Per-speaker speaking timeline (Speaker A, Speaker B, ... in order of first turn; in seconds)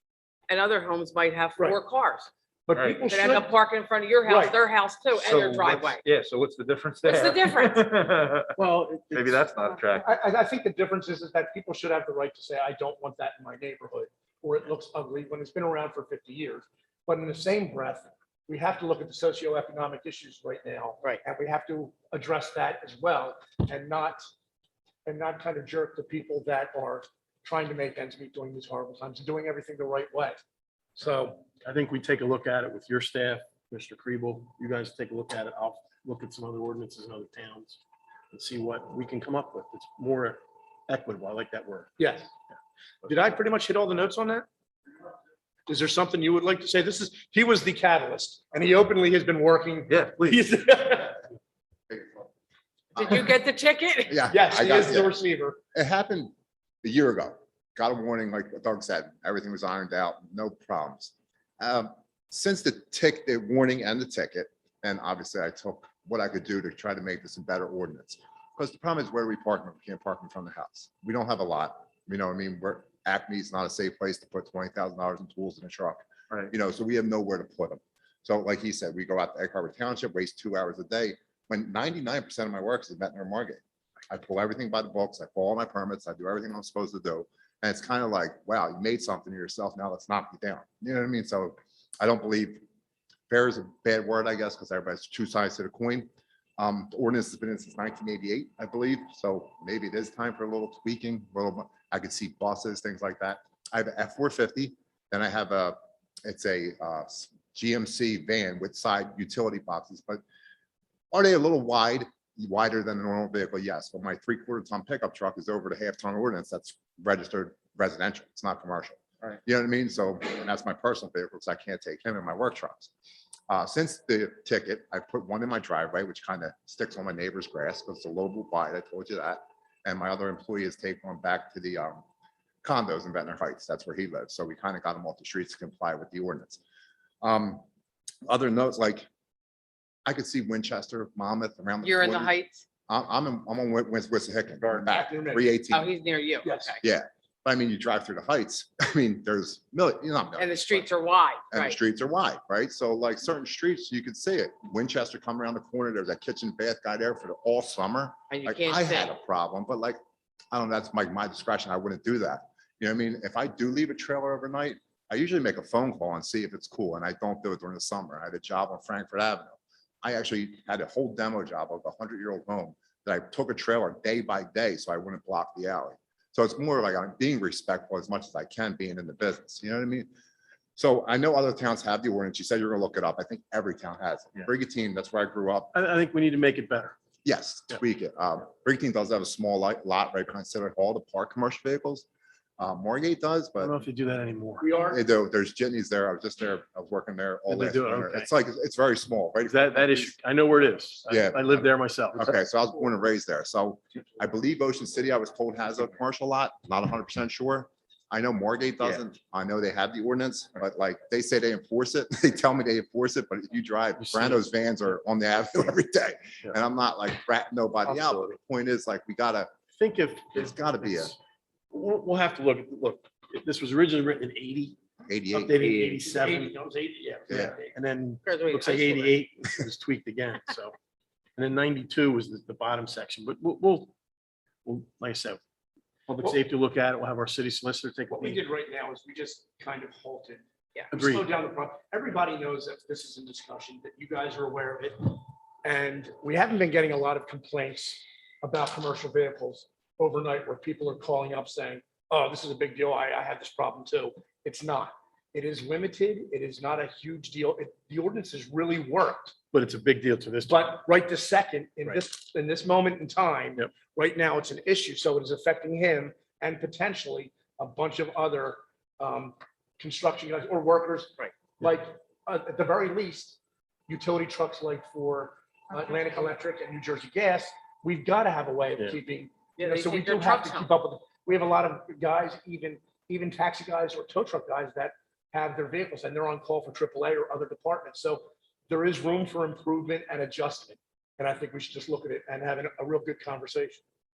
Speaker A: 0.5-2.3, 3.0-6.0, 7.0-7.8, 52.9-54.2, 141.8-142.6, 145.7-146.8, 150.4-151.8, 158.3-159.1, 228.2-229.2, 279.6-280.7
Speaker B: 2.7-3.5, 4.3-4.5, 10.0-24.2, 25.0-30.4, 30.9-31.4, 42.0-42.3, 43.0-44.5, 45.7-51.2, 54.3-55.6, 144.7-145.5, 146.4-146.7, 194.6-195.0, 226.1-227.7, 238.1-259.3, 260.4-293.8
Speaker C: 2.7-3.0, 5.2-8.5, 9.1-10.1, 49.9-50.5
Speaker D: 8.6-9.5, 31.6-37.8, 38.3-41.9, 185.7-186.9, 193.6-194.7, 197.5-198.3, 199.4-202.3, 214.0-214.5, 217.9-218.2, 219.8-221.2, 221.7-224.8, 225.3-230.7, 231.4-233.9, 234.6-235.4, 236.1-238.4, 240.9-241.2, 259.5-260.8
Speaker E: 51.9-52.3, 54.1-55.1, 55.7-92.6, 93.3-110.2, 111.1-122.9, 123.5-132.0, 132.6-136.6, 137.2-137.6, 138.2-139.1, 140.1-142.3, 142.9-145.9, 146.8-150.9, 151.5-160.0, 160.5-180.1, 180.8-185.7, 187.2-192.1, 192.6-193.8, 194.9-200.2, 201.1-219.5, 220.3-221.1, 225.1-226.1, 227.3-227.5